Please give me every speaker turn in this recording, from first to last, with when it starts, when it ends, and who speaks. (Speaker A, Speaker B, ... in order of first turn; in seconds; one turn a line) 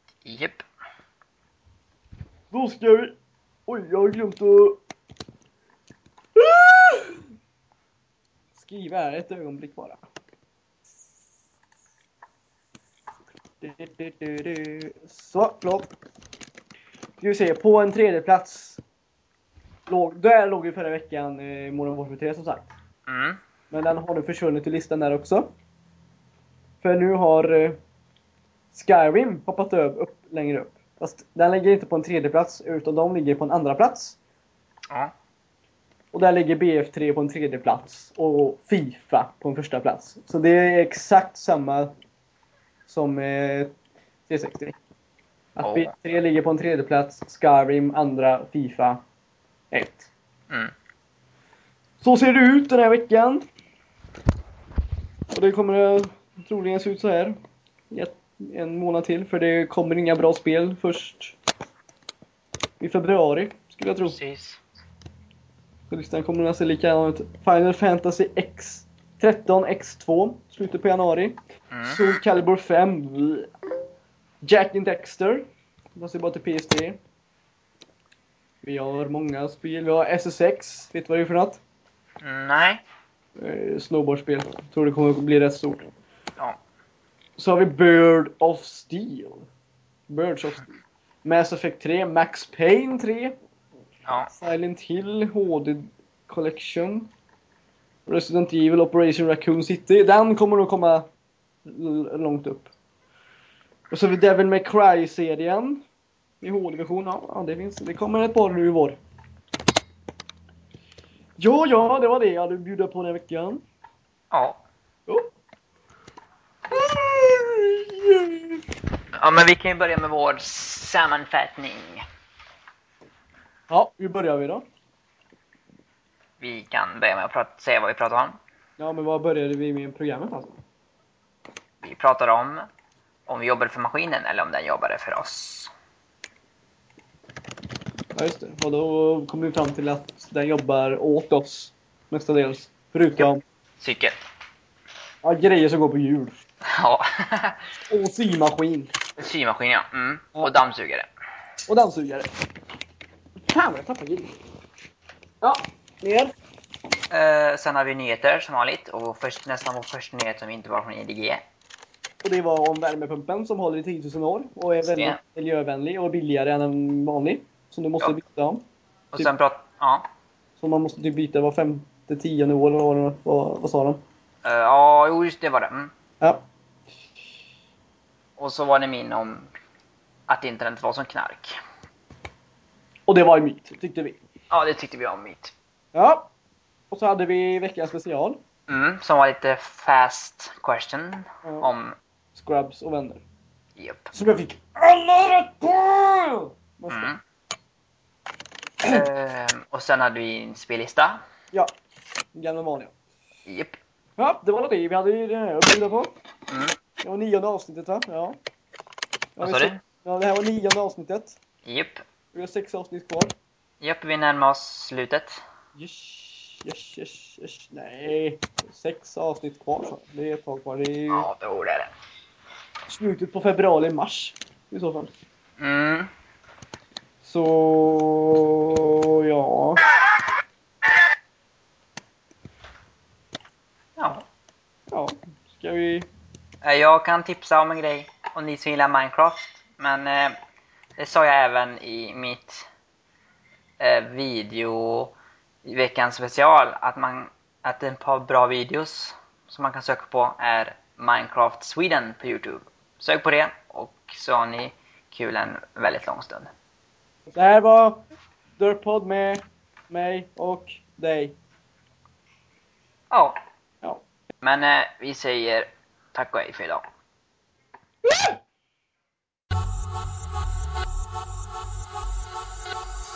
Speaker A: 0.2-0.6
Speaker B: 2.5-3.1
Speaker B: 3.7-4.8
Speaker B: 6.3-7.2
Speaker B: 8.6-10.0
Speaker B: 13.6-15.9
Speaker B: 17.2-18.8
Speaker B: 19.9-22.7
Speaker A: 23.1-23.4
Speaker B: 23.7-25.5
Speaker B: 26.8-27.8
Speaker B: 28.7-34.2
Speaker B: 36.1-41.9
Speaker B: 42.9-43.7
Speaker B: 44.3-44.8
Speaker B: 45.5-49.0
Speaker A: 45.6-45.9
Speaker B: 49.7-50.1
Speaker B: 52.0-53.5
Speaker B: 55.3-57.4
Speaker B: 57.9-61.4
Speaker B: 62.8-64.2
Speaker A: 64.1-64.6
Speaker B: 65.9-73.5
Speaker A: 71.7-72.1
Speaker B: 74.4-77.0
Speaker B: 78.6-81.6
Speaker A: 82.2-82.8
Speaker B: 83.4-85.9
Speaker B: 87.4-89.5
Speaker B: 90.1-93.3
Speaker B: 94.3-97.1
Speaker B: 98.1-101.1
Speaker B: 101.7-102.7
Speaker B: 103.9-105.8
Speaker B: 106.4-109.0
Speaker B: 111.4-113.6
Speaker A: 114.3-114.6
Speaker B: 116.7-118.6
Speaker A: 119.1-122.0
Speaker B: 123.7-124.7
Speaker A: 126.4-128.4
Speaker B: 128.8-130.6
Speaker A: 131.8-132.7
Speaker A: 133.3-135.7
Speaker B: 138.1-143.4
Speaker A: 143.8-144.2
Speaker B: 145.2-146.4
Speaker A: 146.6-147.7
Speaker B: 147.9-148.9
Speaker A: 149.2-151.1
Speaker B: 151.7-152.3
Speaker B: 153.5-154.3
Speaker B: 155.4-156.3
Speaker A: 157.1-161.4
Speaker B: 162.2-168.6
Speaker A: 164.8-165.2
Speaker A: 169.1-170.1
Speaker B: 170.6-174.0
Speaker A: 174.4-175.9
Speaker A: 178.4-179.5
Speaker A: 180.3-181.6
Speaker B: 183.1-184.2
Speaker A: 184.5-185.5
Speaker B: 185.9-186.3
Speaker B: 186.9-188.4
Speaker A: 188.7-192.0
Speaker B: 191.4-191.7
Speaker B: 192.3-193.2
Speaker A: 193.8-194.1
Speaker B: 194.1-197.1
Speaker A: 196.9-197.2
Speaker A: 198.8-201.2
Speaker B: 202.3-202.9
Speaker A: 203.4-203.8
Speaker B: 204.2-206.1
Speaker A: 206.5-206.8
Speaker B: 207.0-208.4
Speaker B: 209.3-211.4
Speaker A: 209.4-209.8
Speaker A: 211.6-212.0
Speaker B: 212.3-213.3
Speaker A: 213.8-215.4
Speaker B: 215.7-221.3
Speaker A: 221.1-221.9
Speaker B: 222.9-225.1
Speaker A: 225.6-226.1
Speaker B: 227.2-229.8
Speaker A: 234.0-234.2
Speaker B: 234.9-236.1
Speaker A: 236.6-240.3
Speaker A: 241.0-242.7
Speaker A: 243.8-256.5
Speaker B: 257.3-258.0
Speaker B: 258.6-261.4
Speaker A: 263.1-263.4
Speaker A: 264.4-266.8